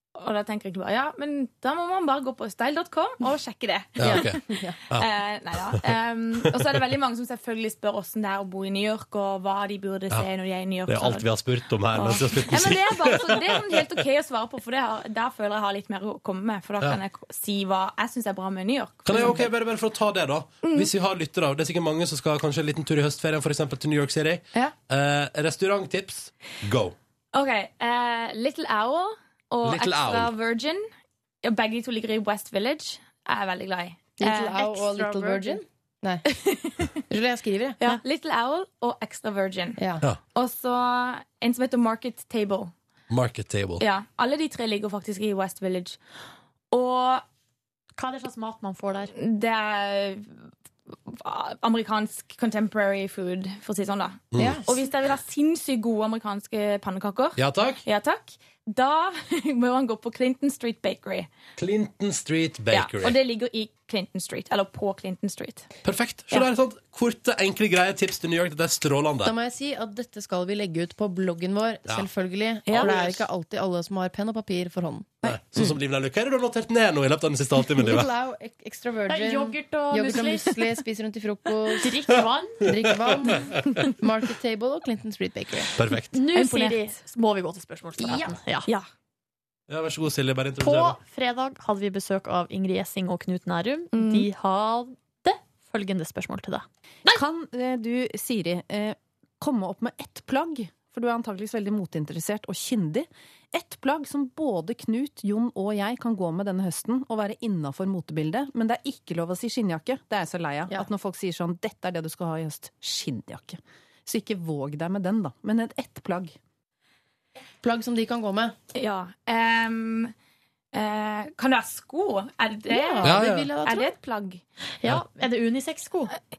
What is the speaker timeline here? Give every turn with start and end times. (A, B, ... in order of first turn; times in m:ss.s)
0:00.2-0:11.3 A
0:04.0-0:05.1 B
0:04.0-0:04.8 C
0:10.9-0:13.9 B
0:11.9-0:19.4 A
0:19.0-0:27.0 B
0:19.1-0:19.4 C
0:20.6-0:20.9 A
0:27.3-0:30.9 A
0:29.6-0:30.3 B
0:31.4-0:34.7 A
0:34.2-0:36.2 C
0:34.6-0:35.6 D
0:36.3-0:37.0 A
0:37.1-0:37.8 C
0:37.8-0:39.8 A
0:39.8-0:40.0 C
0:40.3-0:42.7 A
0:43.1-0:43.8 B
0:43.8-0:46.0 A
0:46.7-0:47.2 A
0:48.0-0:49.1 D
0:49.1-1:01.3 A
0:54.3-0:54.6 B
0:54.4-0:54.7 C
0:57.4-0:57.8 B
1:01.6-1:03.2 B
1:02.7-1:05.7 A
1:05.8-1:09.4 B
1:09.2-1:15.7 C
1:12.7-1:13.0 A
1:12.7-1:13.2 B
1:15.2-1:18.1 B
1:17.7-1:21.9 C
1:19.1-1:20.6 D
1:21.8-1:22.6 D
1:22.6-1:25.7 C
1:22.6-1:23.4 B
1:25.8-1:26.1 B
1:26.1-1:28.7 D
1:26.3-1:26.9 A
1:28.0-1:28.4 C
1:29.7-1:31.0 B
1:30.6-1:37.2 D
1:33.9-1:34.3 A
1:37.1-1:56.4 E
1:57.6-1:58.6 C
1:58.8-2:00.1 A
2:00.7-2:04.4 A
2:02.7-2:03.9 C
2:03.0-2:03.5 B
2:04.8-2:06.1 D